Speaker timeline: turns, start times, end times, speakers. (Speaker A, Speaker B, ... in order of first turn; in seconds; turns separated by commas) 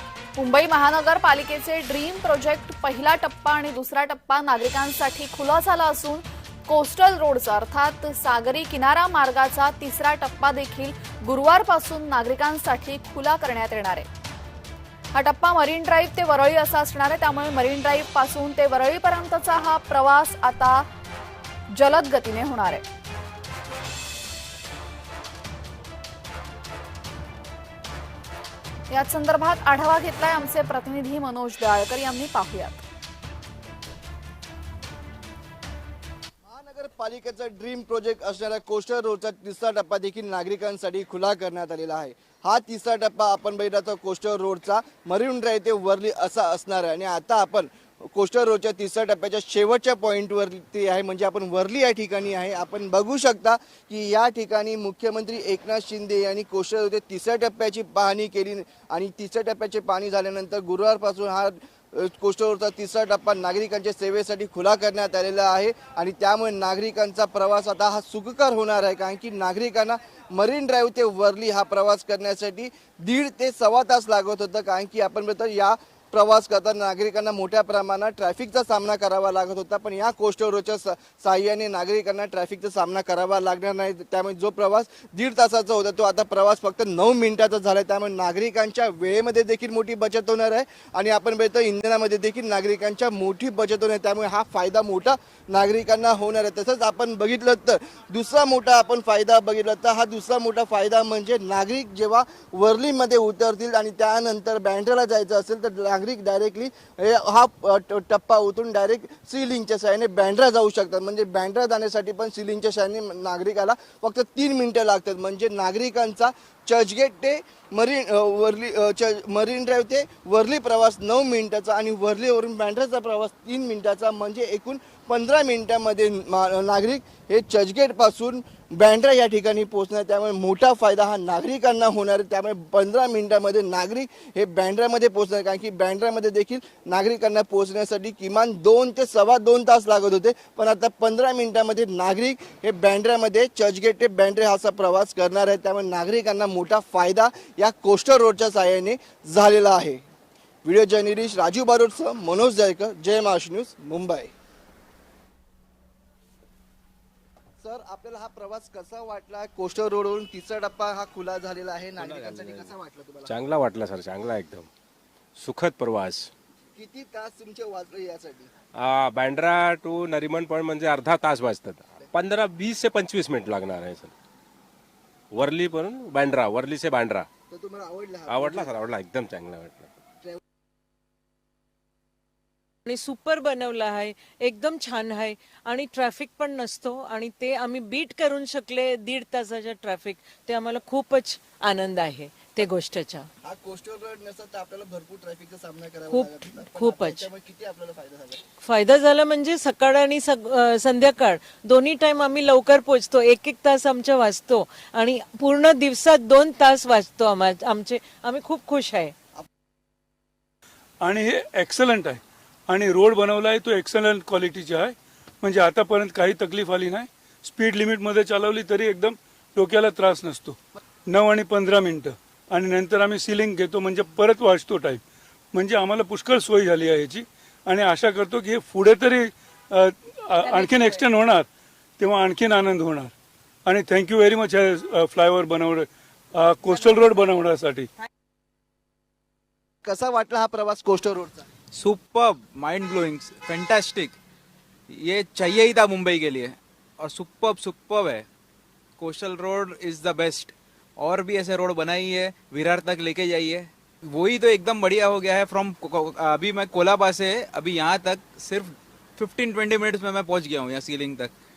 Speaker A: 0.4-14.1, Speaker A: 15.1-20.9, Speaker A: 21.7-22.9, Speaker A: 28.9-32.8, Speaker B: 36.5-150.0, Speaker B: 150.6-154.3, Speaker B: 157.6-163.4, Speaker C: 162.0-162.7, Speaker C: 163.3-164.7, Speaker C: 165.4-166.3, Speaker B: 166.8-168.5, Speaker C: 168.8-174.1, Speaker C: 175.3-177.3, Speaker B: 177.5-178.8, Speaker C: 178.3-179.9, Speaker D: 182.9-193.3, Speaker B: 193.4-198.4, Speaker D: 196.1-197.3, Speaker D: 198.6-209.1, Speaker E: 211.0-220.6, Speaker E: 221.1-225.0, Speaker E: 225.5-231.5, Speaker E: 232.0-233.1, Speaker E: 233.7-237.9, Speaker B: 239.8-241.5, Speaker F: 241.8-244.2, Speaker F: 244.9-248.2, Speaker F: 249.0-261.3